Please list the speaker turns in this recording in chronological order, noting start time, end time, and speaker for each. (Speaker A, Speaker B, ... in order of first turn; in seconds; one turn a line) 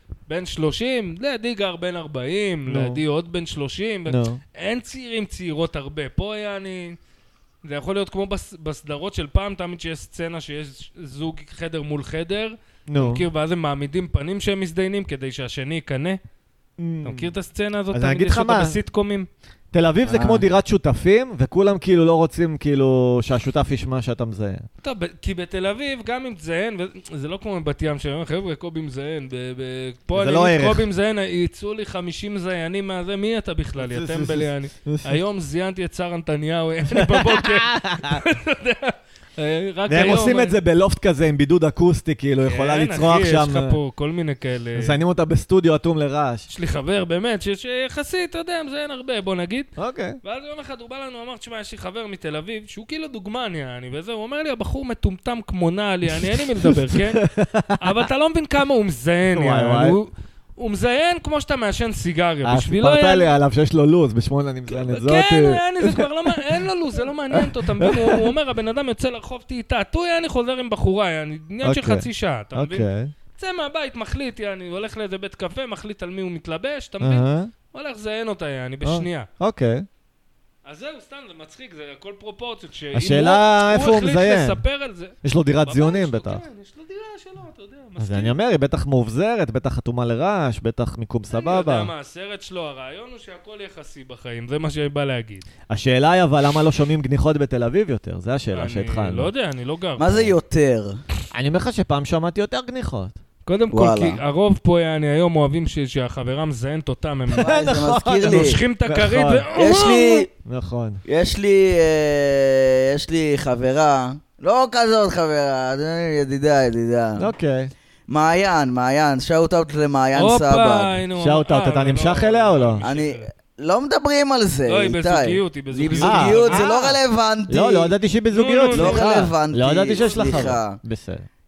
Speaker A: 0.3-7.0
Speaker B: 2.7-3.0
Speaker B: 4.1-4.4
Speaker A: 7.6-16.2
Speaker B: 12.9-13.2
Speaker B: 16.8-17.3
Speaker A: 17.0-19.3
Speaker B: 17.9-18.8
Speaker B: 19.7-24.6
Speaker C: 20.1-20.4
Speaker A: 24.8-40.6
Speaker B: 30.1-30.9
Speaker B: 33.8-35.2
Speaker B: 37.0-38.2
Speaker B: 39.9-43.8
Speaker A: 42.4-45.0
Speaker B: 44.8-46.5
Speaker A: 46.5-49.7
Speaker B: 49.8-50.2
Speaker A: 50.2-57.2
Speaker B: 56.6-57.9
Speaker A: 57.8-63.3
Speaker B: 59.3-60.0
Speaker B: 62.4-66.4
Speaker A: 64.7-79.3
Speaker B: 67.3-68.3
Speaker B: 71.6-73.1
Speaker B: 77.0-77.5
Speaker B: 78.8-79.9
Speaker A: 80.7-88.4
Speaker B: 82.9-84.6
Speaker B: 85.2-86.4
Speaker B: 88.0-91.9
Speaker A: 91.3-95.5
Speaker B: 95.7-99.3
Speaker A: 98.5-100.3
Speaker C: 100.0-101.0
Speaker B: 101.3-103.2
Speaker A: 103.5-107.5
Speaker C: 103.7-104.2
Speaker B: 107.3-109.5
Speaker C: 107.4-108.6
Speaker A: 108.2-110.3
Speaker C: 109.5-110.3
Speaker B: 110.3-111.0
Speaker C: 111.1-117.3
Speaker B: 117.2-117.7
Speaker C: 118.1-120.9
Speaker A: 120.2-123.3
Speaker B: 121.2-122.8
Speaker C: 122.8-127.9
Speaker A: 124.7-126.7
Speaker B: 126.0-131.3
Speaker A: 128.3-129.3
Speaker C: 128.7-130.8